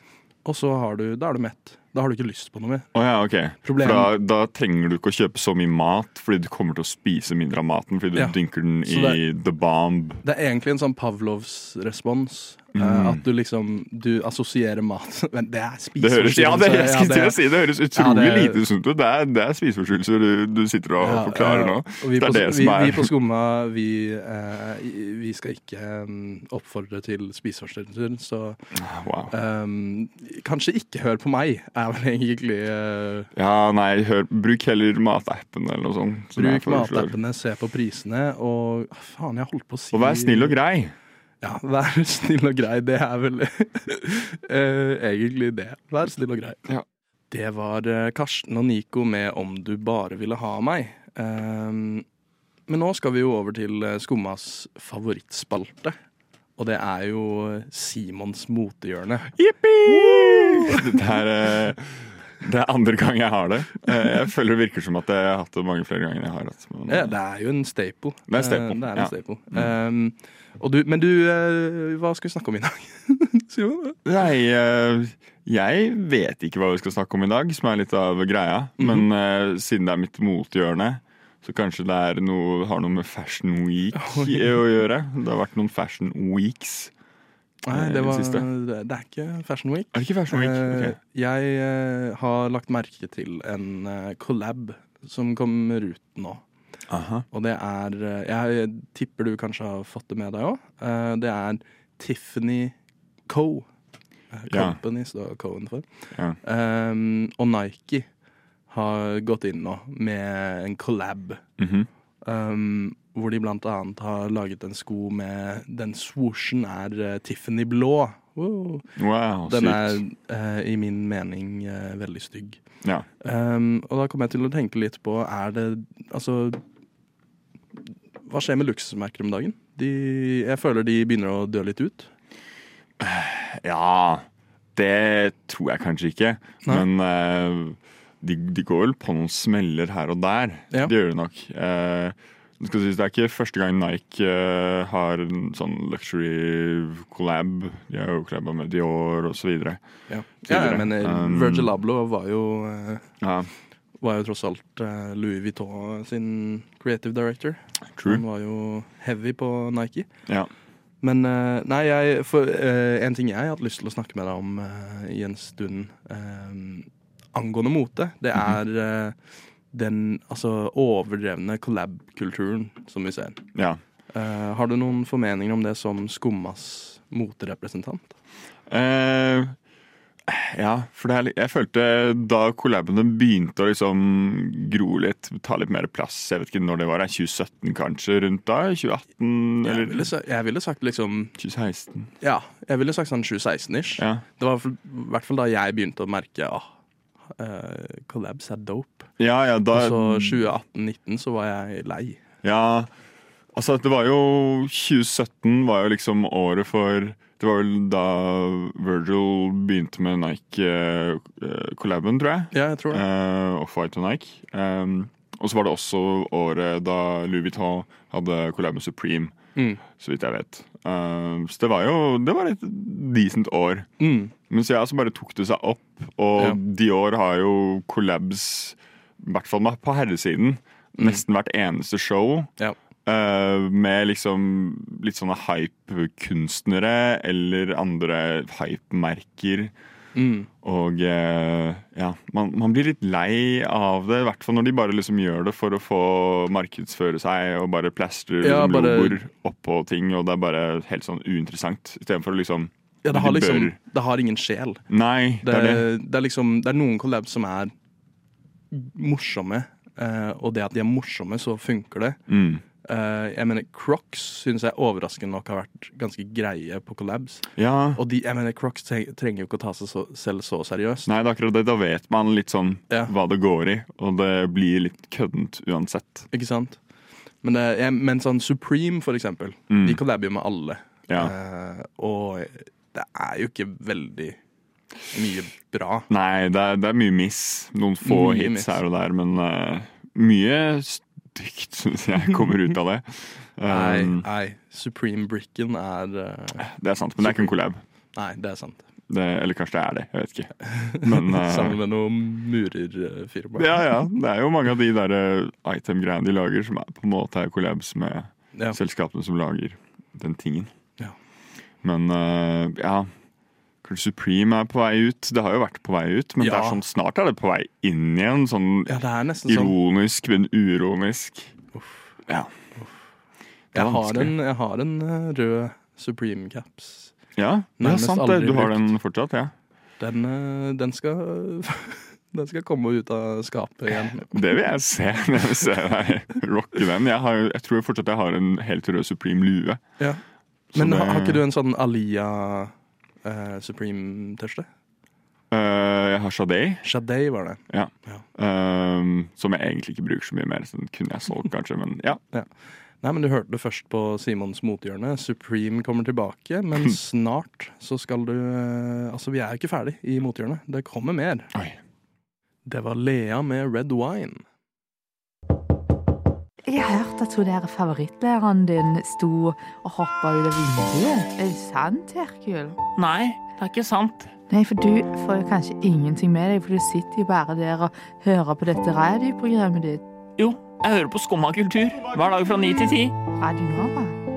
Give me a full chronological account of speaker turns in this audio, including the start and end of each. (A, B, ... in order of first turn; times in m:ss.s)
0:00.4-0:02.9 A
0:02.9-0:10.2 B
0:03.6-0:04.1 A
0:08.1-0:09.2 A
0:10.2-0:17.4 A
0:12.7-0:13.2 B
0:16.0-0:23.1 B
0:17.9-0:18.6 A
0:21.0-0:28.6 A
0:28.7-0:29.3 B
0:29.3-0:33.3 A
0:33.3-0:37.1 B
0:36.4-0:40.5 A
0:39.9-0:40.9 B
0:41.4-0:46.6 A
0:47.3-0:52.0 A
0:52.7-0:56.0 A
0:56.6-0:59.3 A
0:59.3-1:07.1 B
0:59.8-1:00.8 A
1:06.9-1:14.0 A
1:08.3-1:09.7 B
1:14.0-1:26.9 B
1:18.8-1:19.0 A
1:23.9-1:24.5 A
1:27.6-1:36.4 A
1:27.7-1:28.5 B
1:29.9-1:31.0 B
1:36.9-1:37.2 B
1:37.3-1:42.8 A
1:43.3-1:43.7 A
1:44.3-1:48.1 A
1:44.5-1:44.8 B
1:48.7-1:51.4 A
1:51.6-1:51.9 B
1:52.2-1:58.9 A
1:59.0-2:00.0 B
1:59.4-2:02.6 A
2:03.2-2:06.6 A
2:08.3-2:12.1 A
2:13.0-2:29.8 B
2:30.1-2:33.1 A
2:30.4-2:31.7 B
2:33.2-2:33.5 B
2:34.0-2:40.1 A
2:37.9-2:38.2 B
2:41.0-2:49.2 A
2:49.7-2:53.4 A
2:53.5-2:53.8 B
2:54.1-2:58.1 A
2:58.7-2:59.5 B
3:00.3-3:10.1 B
3:09.6-3:11.3 A
3:11.4-3:12.1 B
3:12.2-3:16.7 A
3:14.0-3:14.2 B
3:17.4-3:19.1 A
3:19.2-3:20.4 B
3:19.7-3:22.2 A
3:22.4-3:22.9 B
3:23.5-3:52.5 B
3:32.5-3:33.0 A
3:39.6-3:39.8 A
3:44.0-3:44.3 A
3:51.0-3:51.2 A
3:53.0-3:59.7 B
4:00.1-4:00.5 A
4:00.6-4:13.8 B
4:08.4-4:09.2 A
4:13.0-4:14.8 A
4:14.9-4:15.8 B
4:15.4-4:17.7 A
4:18.7-4:22.2 A
4:22.3-4:22.6 B
4:22.8-4:31.1 A
4:27.6-4:28.0 B
4:31.0-4:36.3 B
4:36.3-4:36.8 A
4:37.4-4:44.4 A
4:39.7-4:40.0 B
4:45.1-4:46.1 A
4:46.1-4:54.2 B
4:48.0-4:48.8 A
4:53.7-4:56.7 A
4:56.6-4:57.8 B
4:57.2-4:57.6 A
4:58.1-4:58.8 A
4:59.1-5:01.8 B
5:00.7-5:03.7 A
5:03.6-5:10.7 B
5:11.8-5:13.1 B
5:13.8-5:18.9 B
5:16.4-5:16.8 A
5:18.9-5:19.7 A
5:19.4-5:21.5 B
5:21.7-5:22.1 A
5:22.3-5:22.5 B
5:23.7-5:27.1 A
5:23.7-5:24.3 B
5:27.4-5:29.5 B
5:27.8-5:28.9 A
5:30.0-5:34.3 A
5:33.9-5:39.8 B
5:40.7-5:41.4 B
5:40.7-5:42.7 A
5:43.2-5:44.7 A
5:45.5-5:46.8 B
5:46.8-5:48.2 A
5:47.7-5:52.2 B
5:52.3-6:01.5 A
6:02.6-6:04.4 A
6:06.6-6:12.8 C
6:13.0-6:14.3 D
6:14.5-6:20.0 C
6:20.4-6:23.1 D
6:23.3-6:24.1 C